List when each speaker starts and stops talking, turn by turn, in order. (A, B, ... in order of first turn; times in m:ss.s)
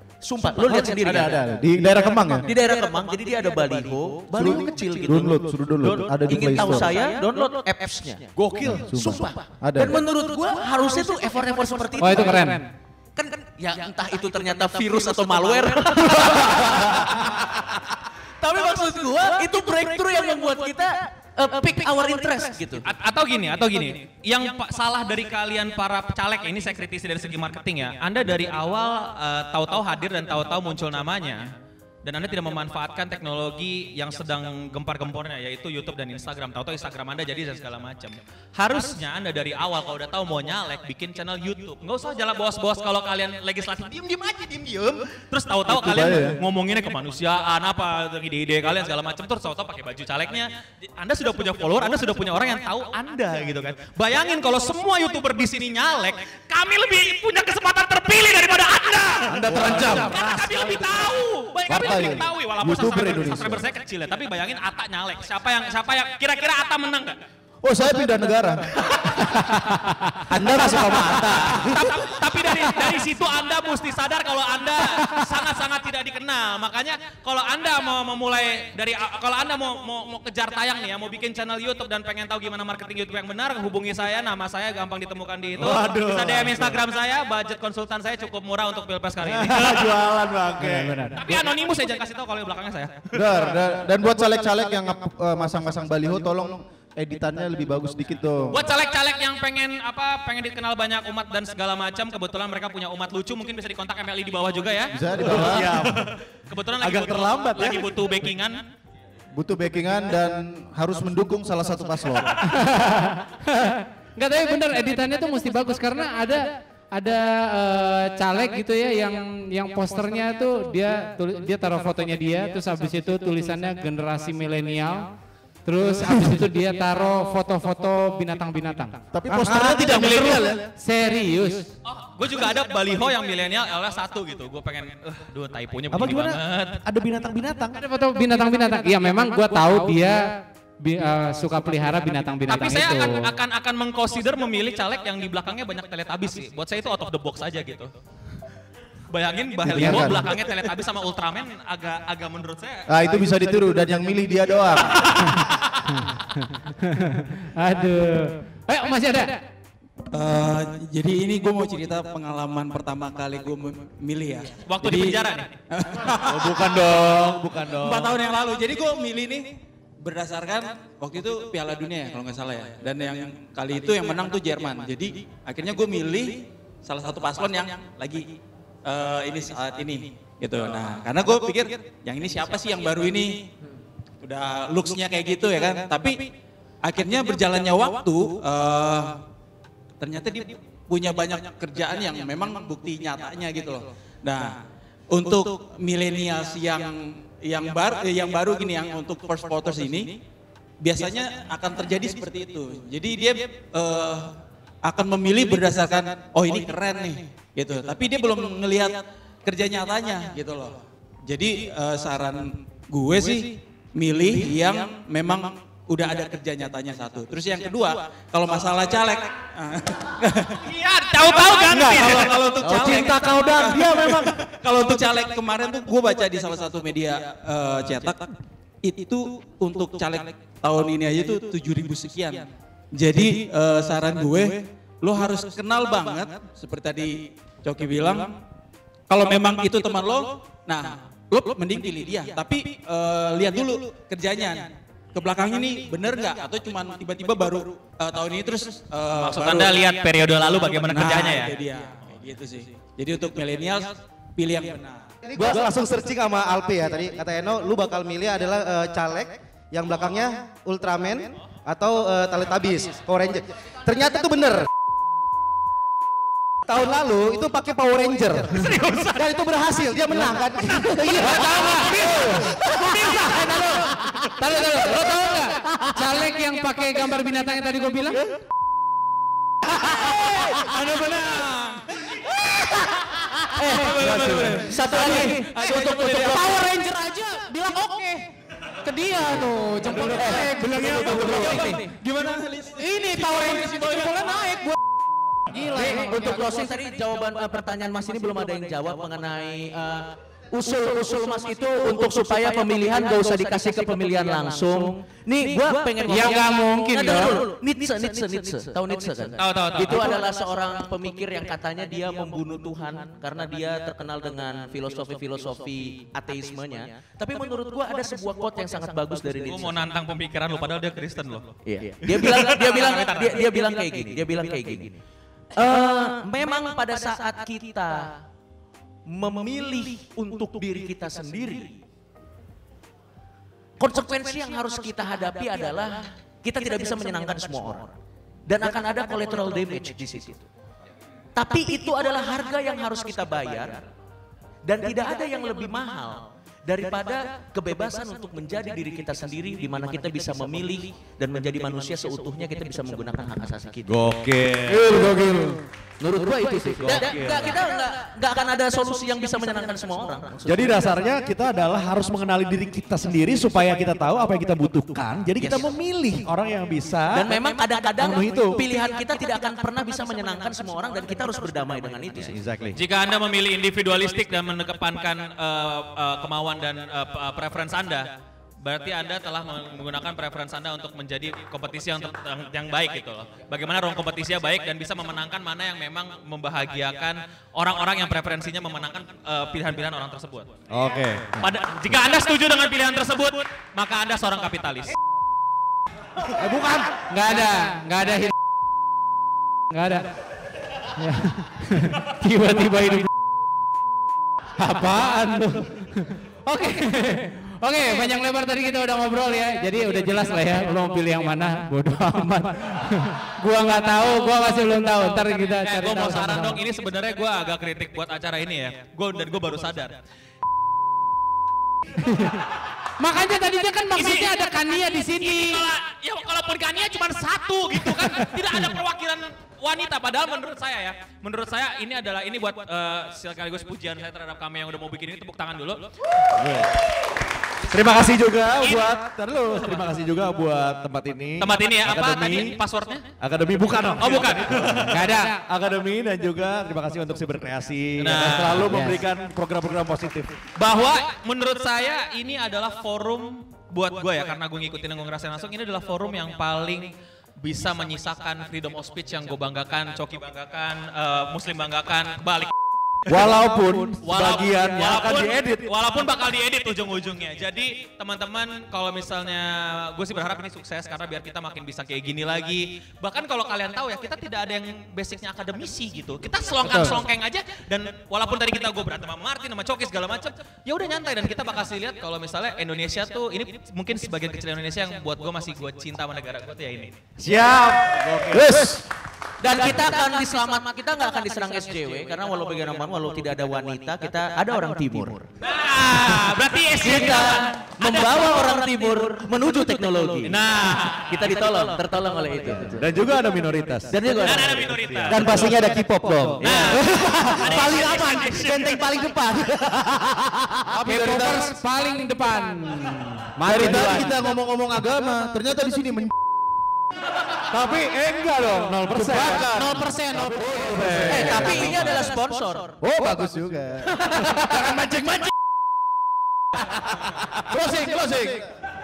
0:00.2-0:01.5 A
0:00.6-0:02.5 B
0:02.4-0:08.3 A
0:04.3-0:07.0 B
0:08.4-0:09.0 C
0:08.6-0:10.0 B
0:08.9-0:12.7 A
0:12.0-0:12.6 D
0:13.2-0:17.8 A
0:18.4-0:22.9 A
0:22.8-0:31.4 E
0:32.0-1:07.2 E
0:45.7-0:46.4 B
0:59.3-1:00.2 B
0:59.5-1:00.4 C
1:01.7-1:03.6 B
1:07.6-1:11.7 B
1:10.3-1:11.7 C
1:11.7-1:30.1 E
1:25.6-1:26.8 C
1:29.2-1:31.5 C
1:30.6-1:31.2 D
1:31.2-1:33.1 E
1:33.1-1:38.6 B
1:38.5-1:48.6 E
1:44.9-1:45.9 B
1:45.2-1:46.2 C
1:46.8-1:48.0 C
1:49.3-1:52.4 B
1:52.5-2:05.1 D
2:05.6-2:09.0 D
2:09.1-2:10.6 B
2:09.3-2:10.6 C
2:10.0-2:10.2 D
2:10.8-2:11.7 D
2:11.9-2:16.8 E
2:15.9-2:17.8 C
2:17.8-2:20.2 D
2:20.8-2:23.3 D
2:22.5-2:27.9 E
2:29.1-2:32.8 E
2:29.6-2:30.3 B
2:32.9-2:35.2 B
2:36.6-2:39.4 D
2:40.1-2:46.6 F
2:44.7-2:45.6 E
2:46.2-2:48.2 C
2:47.8-2:58.3 F
2:58.8-3:03.5 F
3:04.2-3:06.3 F
3:06.8-3:09.2 F
3:10.0-3:14.6 F
3:15.1-3:20.2 F
3:20.8-3:48.3 F
3:40.7-3:42.3 E
3:42.6-3:44.4 C
3:48.8-3:58.4 F
3:59.1-4:09.8 F
4:09.2-4:11.5 E
4:10.6-4:15.1 F
4:15.3-4:24.7 G
4:26.6-4:31.3 G
4:28.6-4:29.3 E
4:31.0-4:38.2 D
4:40.1-4:41.8 F
4:43.6-4:46.6 F
4:44.6-4:46.1 A
4:45.1-4:45.4 D
4:46.3-4:47.9 D
4:48.9-4:51.7 D
4:49.9-4:54.1 F
4:51.4-4:51.9 A
4:52.8-4:54.6 D
4:55.5-4:56.2 D
4:55.7-5:19.8 A
5:06.1-5:07.4 D
5:09.4-5:10.2 E
5:19.5-5:23.4 E
5:21.6-5:25.0 A
5:25.6-5:28.2 A
5:29.1-5:31.8 A
5:33.8-5:37.9 A
5:38.5-5:40.5 A
5:41.4-5:43.8 A
5:44.6-5:53.9 A
5:53.9-5:55.2 C
5:56.0-6:00.8 A
5:56.5-5:57.6 C
6:00.4-6:07.3 C
6:05.4-6:05.7 A
6:07.1-6:12.4 A
6:08.0-6:08.6 C
6:12.2-6:12.8 C
6:12.8-6:18.1 E
6:18.6-6:30.5 E
6:30.7-6:31.3 C
6:31.4-6:35.0 E
6:36.4-6:38.3 D
6:39.7-6:40.1 D
6:41.0-6:43.1 D
6:44.6-6:56.6 D
6:55.6-7:00.0 E
7:02.0-7:02.4 D
7:03.0-7:05.6 D
7:04.0-7:04.4 E
7:05.2-7:15.9 E
7:16.3-7:16.8 C
7:17.7-7:22.6 C
7:18.6-7:18.9 E
7:21.4-7:23.0 E
7:23.2-7:30.4 C
7:24.0-7:24.7 E
7:24.9-7:25.4 D
7:28.0-7:28.7 E
7:28.6-7:29.0 D
7:30.6-7:42.5 E
7:43.1-7:45.7 C
7:44.0-8:07.0 E
8:07.2-8:08.8 C
8:08.3-8:08.8 B
8:09.4-8:15.2 A
8:15.4-8:18.5 E
8:16.8-8:20.5 A
8:20.2-8:21.5 E
8:21.1-8:23.0 A
8:22.7-8:25.5 C
8:23.9-8:24.8 A
8:24.1-8:25.4 E
8:25.1-8:29.7 G
8:26.4-8:29.0 E
8:30.8-8:31.5 B
8:30.8-8:34.2 D
8:33.4-8:36.2 B
8:37.8-8:41.9 C
8:38.6-8:41.8 B
8:39.6-8:41.0 D
8:41.1-8:42.8 A
8:42.8-8:44.0 B
8:47.5-8:47.8 D
8:47.5-8:48.3 B